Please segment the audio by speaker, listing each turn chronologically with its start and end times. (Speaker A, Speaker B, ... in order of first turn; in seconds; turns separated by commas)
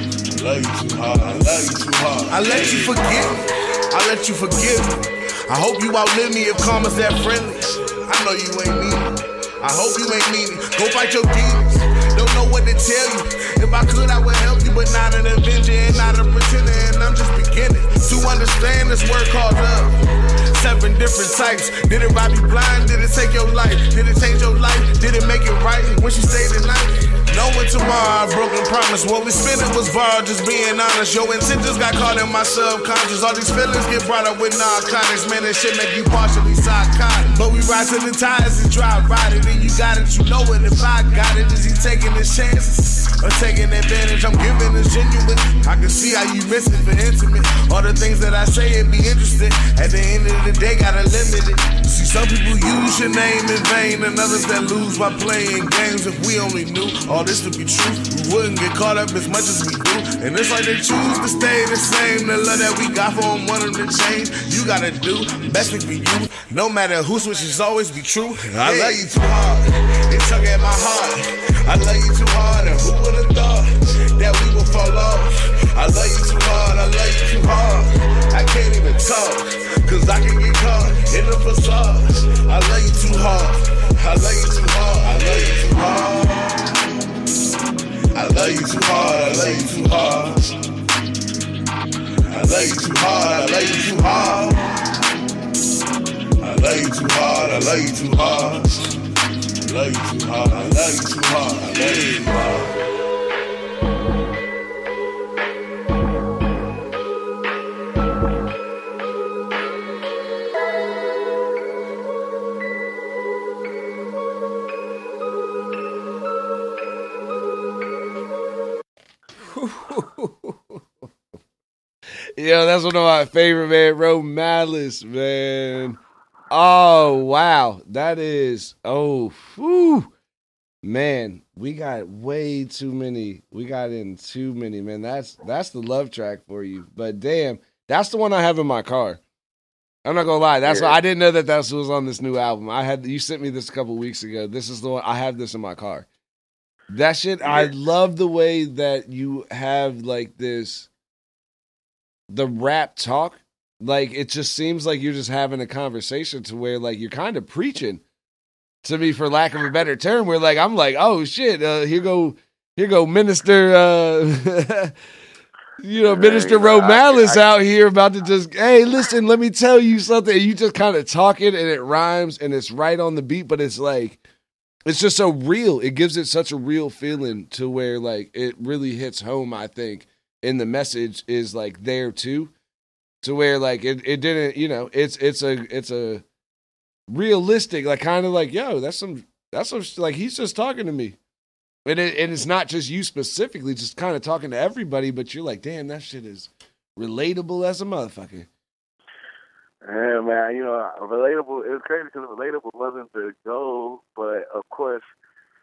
Speaker A: 0.3-86.7, Speaker B: 68.6-69.0, Speaker A: 88.1-90.5, Speaker A: 92.2-94.7, Speaker A: 96.4-98.8, Speaker A: 99.6-102.7, Speaker B: 119.4-120.8, Speaker B: 122.4-126.0, Speaker B: 126.5-130.1, Speaker B: 130.8-139.2, Speaker B: 140.0-146.1, Speaker C: 140.6-141.0, Speaker B: 146.9-150.9, Speaker C: 147.4-147.7, Speaker B: 152.3-158.0, Speaker B: 158.8-164.9, Speaker B: 165.8-174.2, Speaker C: 166.0-167.4, Speaker B: 174.8-182.5, Speaker B: 183.2-186.2, Speaker B: 187.1-191.2, Speaker B: 191.8-198.5, Speaker C: 199.8-205.1